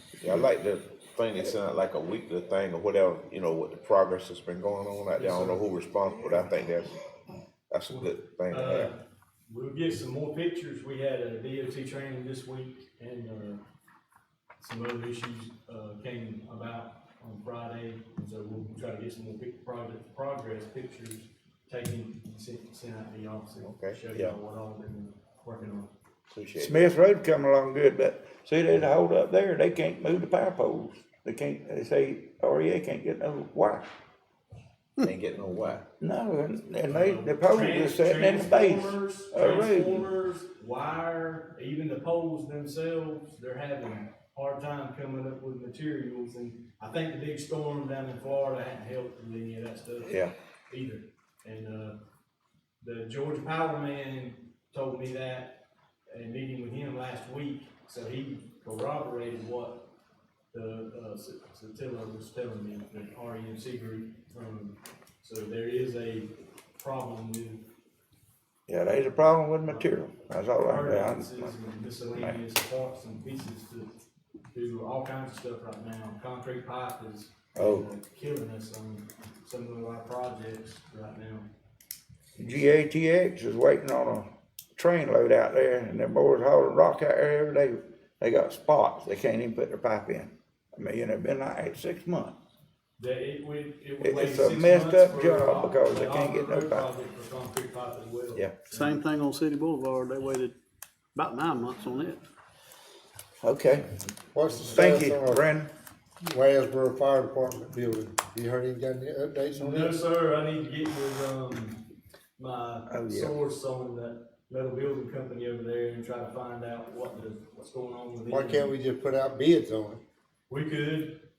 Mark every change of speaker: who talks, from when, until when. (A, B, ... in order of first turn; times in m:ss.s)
0:00.2-0:06.9 A
0:05.1-0:05.7 B
0:07.7-0:08.9 A
0:07.9-0:13.6 B
0:14.6-0:25.9 B
0:23.6-0:24.4 A
0:26.3-0:26.8 A
0:26.6-0:33.9 C
0:35.0-0:35.9 A
0:36.0-0:40.1 C
0:36.9-0:52.0 B
0:50.0-0:50.3 A
0:52.8-0:59.9 B
1:00.5-1:07.7 B
1:08.7-1:11.5 C
1:10.6-1:13.9 B
1:14.5-1:21.5 B
1:17.6-1:17.9 C
1:22.4-1:32.4 C
1:33.0-1:39.0 B
1:34.0-1:36.9 C
1:38.7-1:40.6 D
1:41.2-1:42.2 D
1:43.4-1:43.9 C
1:44.3-1:45.5 E
1:44.5-1:45.0 B
1:44.7-1:45.7 C
1:46.2-1:50.0 E
1:49.6-1:51.8 B
1:52.4-1:58.7 B
1:52.9-1:53.3 C
1:58.3-2:00.0 E
2:00.5-2:01.3 B